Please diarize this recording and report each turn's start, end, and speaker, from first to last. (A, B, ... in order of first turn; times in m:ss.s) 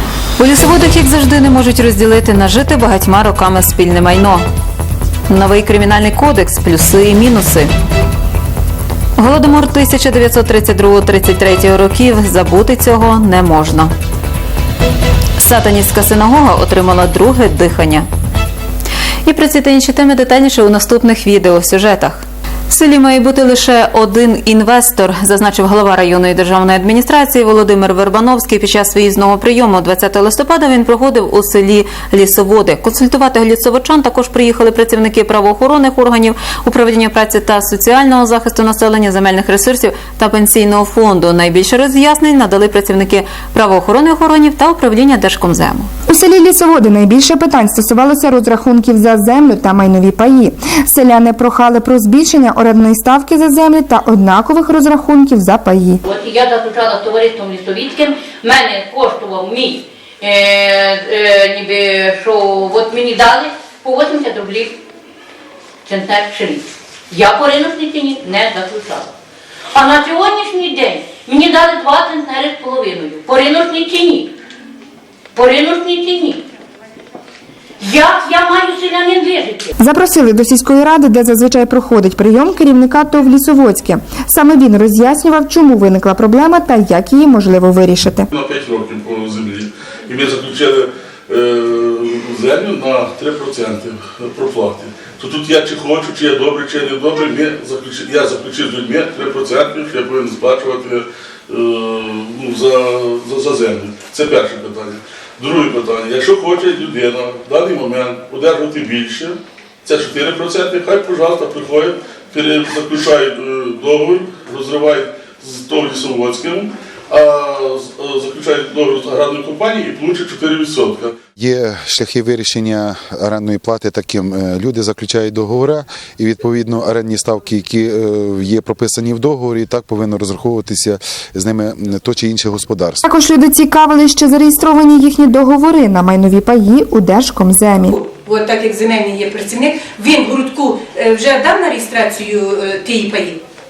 0:00.4-0:04.4 A
0:05.3-0:07.7 A
0:09.2-0:13.9 A
0:15.4-0:18.0 A
0:19.2-0:45.9 A
0:46.1-0:56.0 B
0:56.1-1:04.8 C
1:05.8-1:09.1 C
1:09.7-1:14.3 C
1:15.3-1:16.4 C
1:17.8-1:19.7 C
1:19.8-1:28.3 B
1:28.3-2:01.2 D
2:01.4-2:13.0 E
2:13.0-2:17.9 B
2:18.0-2:23.4 F